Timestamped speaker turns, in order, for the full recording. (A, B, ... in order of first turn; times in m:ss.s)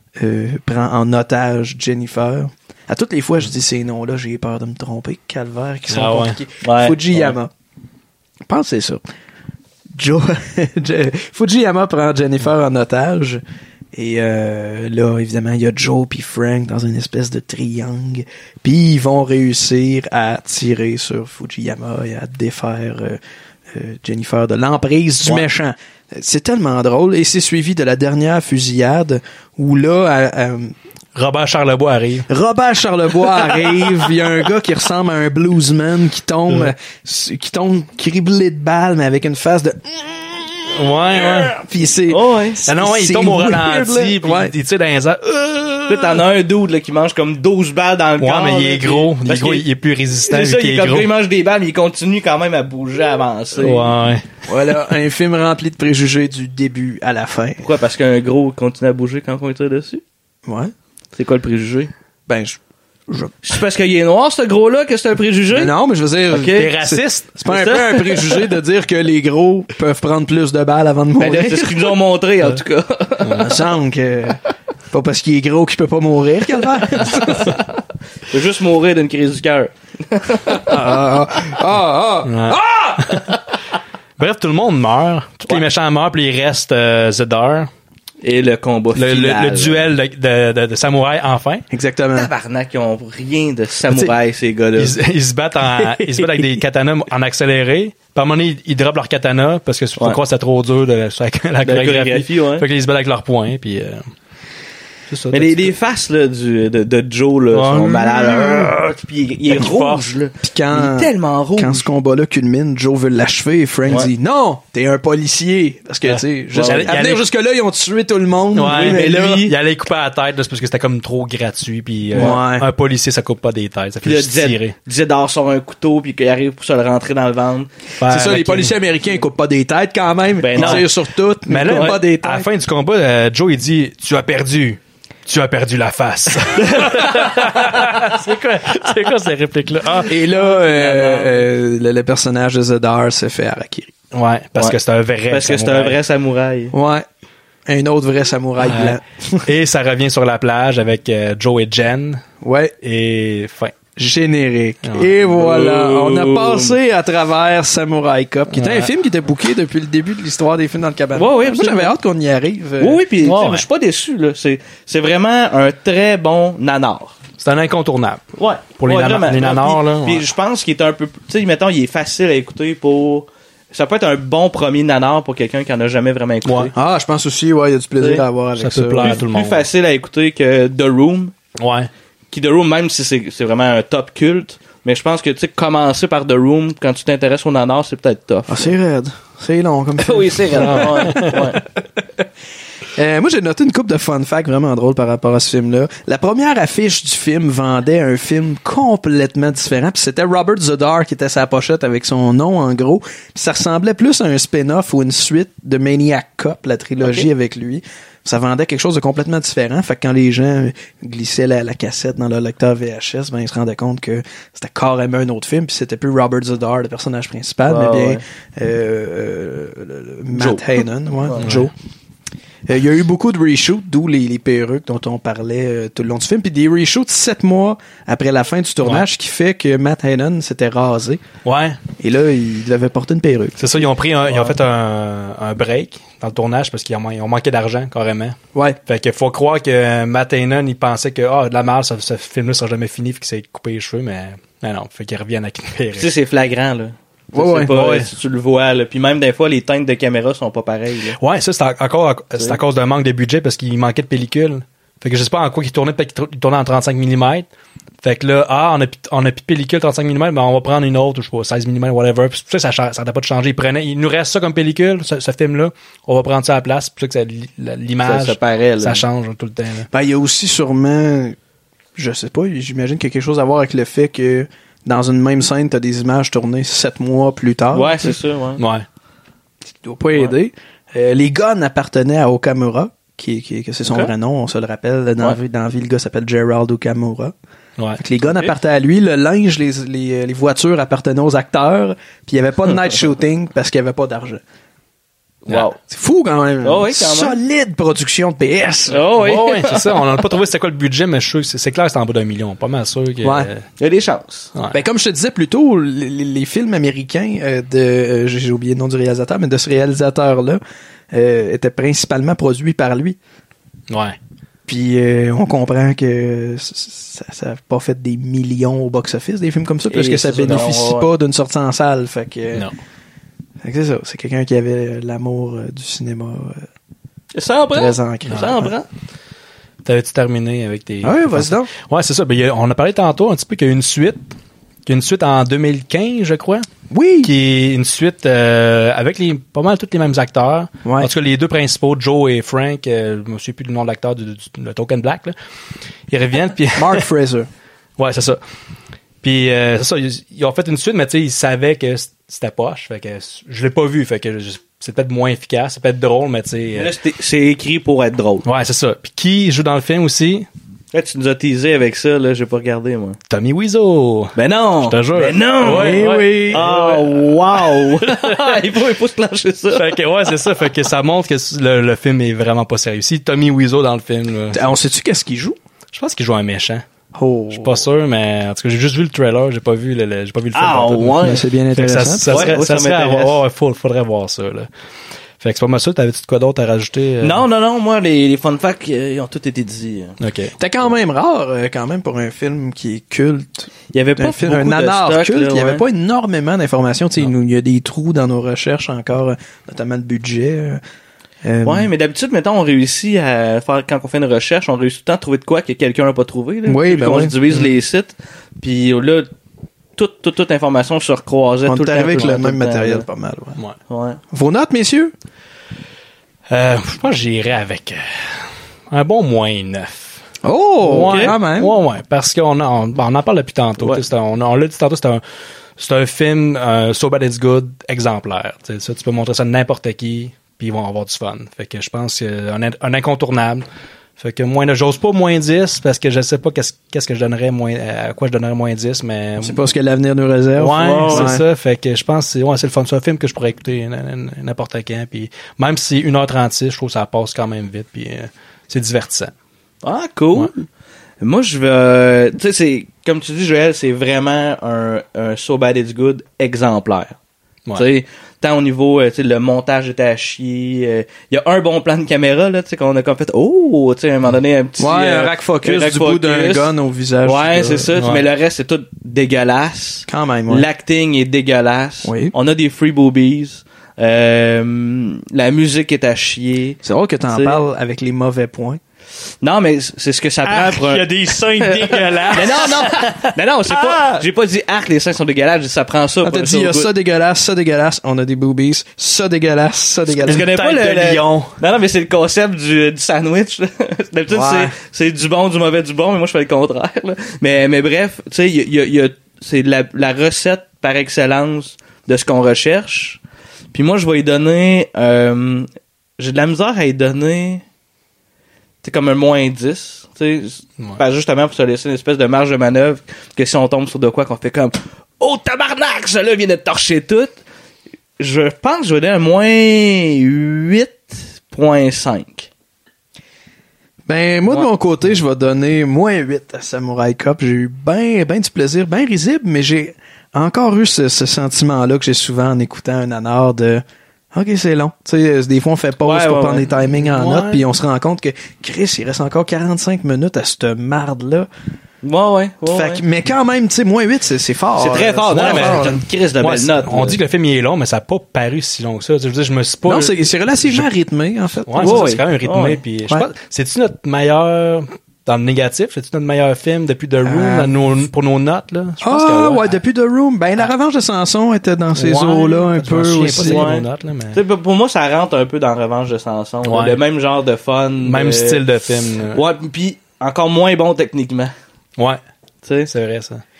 0:00.2-0:07.5 A
0:05.9-0:06.4 B
0:06.6-0:07.4 C
0:08.5-0:09.0 A
0:09.9-0:13.4 A
0:13.9-0:23.2 A
0:23.7-0:30.7 A
0:31.2-0:32.3 B
0:32.3-0:40.5 A
0:40.8-0:41.6 B
0:41.5-0:44.5 A
0:42.1-0:42.6 C
0:42.7-0:46.2 B
0:45.9-0:49.7 C
0:48.2-0:51.1 B
0:50.3-0:53.9 C
0:53.6-0:54.3 B
0:54.5-0:57.7 A
0:57.6-1:00.0 C
1:00.5-1:00.7 A
1:01.2-1:01.9 C
1:02.3-1:02.6 A
1:03.1-1:03.4 A
1:03.4-1:05.7 C
1:05.5-1:11.9 A
1:06.3-1:06.7 C
1:06.4-1:07.4 B
1:07.5-1:08.4 C
1:11.2-1:13.4 C
1:13.2-1:13.5 B
1:13.4-1:14.4 A
1:14.9-1:17.6 A
1:18.3-1:20.7 C
1:20.5-1:23.2 A
1:22.3-1:23.2 B
1:24.2-1:27.7 B
1:28.2-1:29.8 C
1:28.9-1:31.6 B
1:31.7-1:32.3 A
1:32.1-1:35.0 C
1:34.8-1:44.1 B
1:35.8-1:36.4 A
1:41.6-1:42.6 C
1:45.1-1:45.8 B
1:45.3-1:51.9 C
1:47.5-1:48.7 B
1:49.5-1:50.1 B
1:50.4-1:59.4 A
1:56.0-1:57.3 B
1:56.5-1:57.1 C
1:58.6-2:04.8 B
1:58.6-1:59.5 C
2:02.1-2:02.7 A
2:04.0-2:07.7 C
2:08.0-2:08.8 B
2:08.1-2:12.5 A
2:10.4-2:11.0 C
2:10.6-2:10.9 B
2:11.5-2:20.1 B
2:11.6-2:12.0 C
2:16.6-2:17.4 C
2:20.1-2:23.9 A
2:20.2-2:21.4 C
2:24.1-2:26.0 B
2:25.3-2:26.7 C
2:26.7-2:27.0 A
2:27.7-2:29.4 A
2:28.6-2:32.2 B
2:32.4-2:32.7 A
2:32.8-2:33.8 B
2:34.0-2:43.0 A
2:34.8-2:35.1 B
2:35.3-2:36.8 C
2:38.5-2:38.9 B
2:41.1-2:41.9 C
2:42.8-2:47.2 C
2:43.2-2:43.7 B
2:47.4-2:48.2 B
2:48.4-2:56.7 C
2:48.8-2:50.3 B
2:56.4-2:56.7 B
2:56.7-2:59.2 A
2:58.6-2:59.7 B
2:59.0-3:01.4 C
3:01.6-3:01.9 B
3:02.3-3:08.7 C
3:08.5-3:11.4 A
3:10.0-3:11.6 C
3:10.6-3:11.5 B
3:12.9-3:41.7 A
3:27.0-3:27.3 C
3:37.6-3:38.2 C
3:40.4-3:41.4 C
3:41.4-3:41.7 B
3:42.7-3:51.2 A
3:51.4-3:51.8 B
3:52.0-3:53.7 A
3:53.6-4:06.1 B
4:06.0-4:11.2 C
4:07.3-4:07.8 A
4:07.7-4:08.1 B
4:11.1-4:17.5 B
4:18.0-4:29.9 B
4:28.0-4:29.0 C
4:29.9-4:31.4 A
4:32.0-4:38.2 A
4:37.7-4:38.6 C
4:38.6-4:38.9 B
4:39.7-4:47.3 A
4:43.9-4:44.1 C
4:48.0-4:54.4 A
4:48.3-4:48.5 C
4:55.5-4:55.8 C
4:55.9-4:59.0 A
4:56.6-4:57.4 C
4:58.9-5:00.1 C
4:59.2-5:03.7 B
5:03.2-5:03.5 A
5:03.8-5:04.5 C
5:04.7-5:10.6 A
5:11.1-5:13.2 A
5:13.9-5:14.2 B
5:14.7-5:22.7 A
5:19.9-5:21.1 C
5:23.6-5:26.7 A
5:27.3-5:28.9 C
5:27.7-5:28.7 A
5:29.8-5:34.2 B
5:31.0-5:31.7 A
5:34.9-5:36.7 B
5:36.9-5:37.3 A
5:37.2-5:45.4 B
5:40.8-5:41.1 A
5:46.1-5:47.1 B
5:46.8-5:47.5 A
5:48.0-5:48.4 B
5:49.2-5:56.9 B
5:56.8-5:58.4 C
5:58.4-6:00.5 B
6:00.9-6:03.2 C
6:03.3-6:08.6 B
6:04.4-6:09.9 C
6:05.6-6:06.7 A
6:09.7-6:14.7 B
6:14.5-6:15.6 A
6:15.9-6:16.8 B
6:17.1-6:17.9 A
6:17.5-6:24.7 B
6:20.5-6:21.4 C
6:21.2-6:22.6 A
6:22.3-6:23.4 C
6:25.4-6:27.4 B
6:27.2-6:30.2 C
6:30.2-6:30.6 B
6:30.6-6:40.8 A
6:33.9-6:35.8 C
6:41.4-6:41.9 A
6:41.6-6:49.3 C
6:46.7-6:47.4 A
6:50.0-6:53.0 C
6:51.6-6:53.6 A
6:53.9-6:54.2 C
6:54.3-6:55.1 A
6:56.5-7:00.2 B
7:00.4-7:01.8 A
7:00.8-7:05.2 B
7:01.0-7:01.4 C
7:05.8-7:13.6 B
7:14.2-7:19.6 B
7:19.4-7:21.4 A
7:20.6-7:29.3 B
7:20.7-7:21.4 C
7:29.8-7:30.7 C
7:31.2-7:37.2 C
7:37.8-7:57.6 C
7:44.8-7:47.9 A
7:48.0-7:48.3 B
7:50.1-7:50.7 A
7:52.0-7:52.3 A
7:56.8-7:58.8 A
7:59.4-8:06.9 C
8:00.4-8:04.2 B
8:06.2-8:10.5 A
8:10.2-8:23.2 C
8:10.3-8:11.6 B
8:14.3-8:14.7 A
8:23.7-8:25.7 C
8:26.2-8:27.6 C
8:28.8-8:37.4 C
8:38.2-8:42.5 C
8:44.1-9:01.5 A
8:56.0-8:56.7 C
8:56.9-8:57.6 B
9:02.0-9:03.0 C
9:02.7-9:06.0 A
9:04.8-9:07.2 C
9:05.3-9:10.9 B
9:09.9-9:12.1 A
9:11.7-9:19.8 B
9:11.8-9:12.8 C
9:17.2-9:17.7 A
9:19.0-9:23.7 A
9:22.0-9:24.4 B
9:23.4-9:28.7 C
9:26.6-9:27.0 B
9:28.0-9:29.4 B
9:29.3-9:31.5 C
9:32.6-9:32.9 C
9:32.9-9:33.4 B